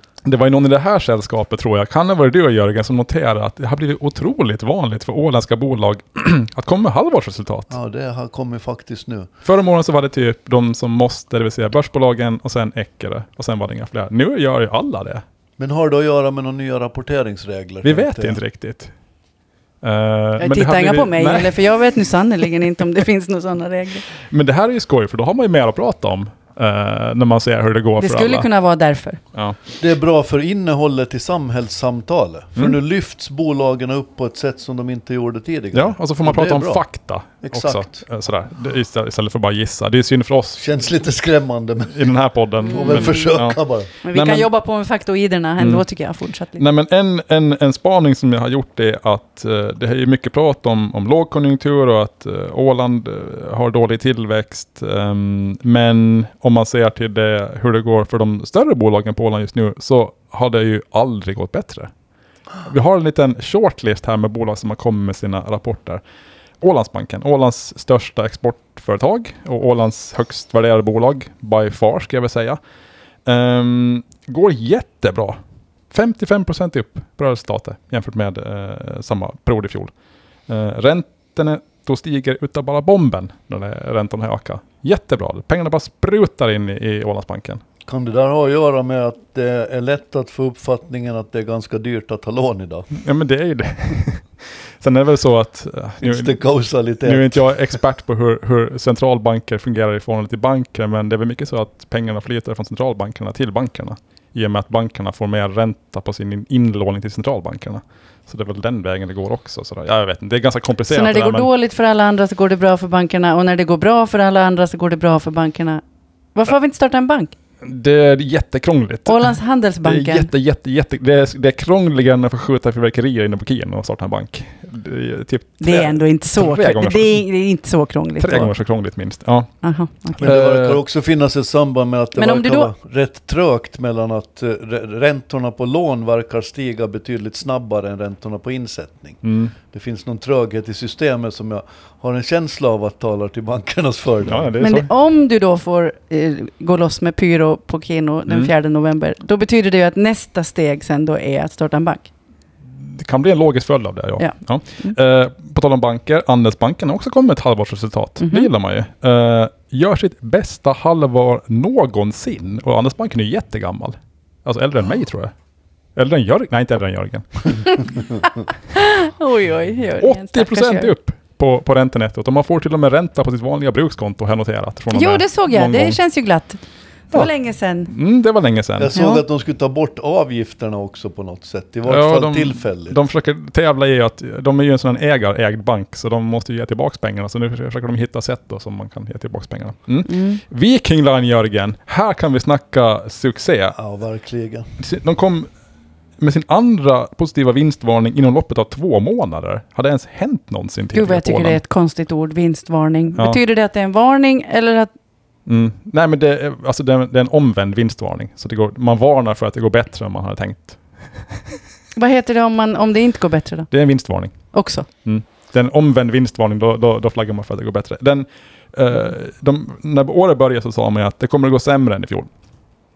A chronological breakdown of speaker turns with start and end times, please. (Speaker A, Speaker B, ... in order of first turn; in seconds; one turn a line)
Speaker A: 0.2-7.8
Speaker B: 7.7-9.3
Speaker A: 9.4-15.2
Speaker B: 15.6-18.4
Speaker A: 17.8-18.9
Speaker A: 19.8-21.8
Speaker C: 20.4-24.1
Speaker A: 24.3-28.5
Speaker C: 28.0-29.2
Speaker A: 29.3-29.6
Speaker B: 29.8-36.8
Speaker A: 35.7-40.6
Speaker B: 37.4-38.0
Speaker B: 40.6-42.1
Speaker A: 41.9-44.5
Speaker C: 42.6-43.4
Speaker B: 42.7-43.9
Speaker C: 44.0-46.6
Speaker A: 45.6-45.8
Speaker A: 46.5-61.9
Speaker A: 62.6-66.0
Speaker A: 66.6-72.6
Speaker A: 73.2-75.4
Speaker A: 75.9-79.9
Speaker A: 80.5-87.6
Speaker B: 87.8-92.9
Speaker A: 92.9-96.4
Speaker B: 96.0-97.8
Speaker A: 97.0-111.5
Speaker C: 110.9-115.8
Speaker C: 116.3-117.3
Speaker A: 117.6-127.2
Speaker C: 119.0-120.3
Speaker C: 125.6-128.5
Speaker A: 128.2-129.5
Speaker C: 129.6-130.3
Speaker A: 130.1-130.8
Speaker B: 130.2-144.5
Speaker C: 132.2-132.7
Speaker A: 139.2-139.5
Speaker A: 144.2-144.9
Speaker C: 144.6-152.1
Speaker A: 152.7-165.3
Speaker C: 154.2-154.9
Speaker C: 158.2-158.5
Speaker A: 165.9-168.0
Speaker C: 167.7-170.9
Speaker A: 170.0-176.0
Speaker C: 174.9-177.9
Speaker A: 177.9-178.9
Speaker B: 178.8-183.0
Speaker C: 178.9-179.2
Speaker A: 181.9-193.8
Speaker C: 190.1-190.4
Speaker B: 193.8-194.7
Speaker A: 194.8-195.5
Speaker A: 196.2-201.6
Speaker C: 200.9-204.9
Speaker A: 205.5-211.4
Speaker C: 212.0-213.7
Speaker A: 213.7-214.3
Speaker C: 214.5-214.9
Speaker A: 215.0-222.3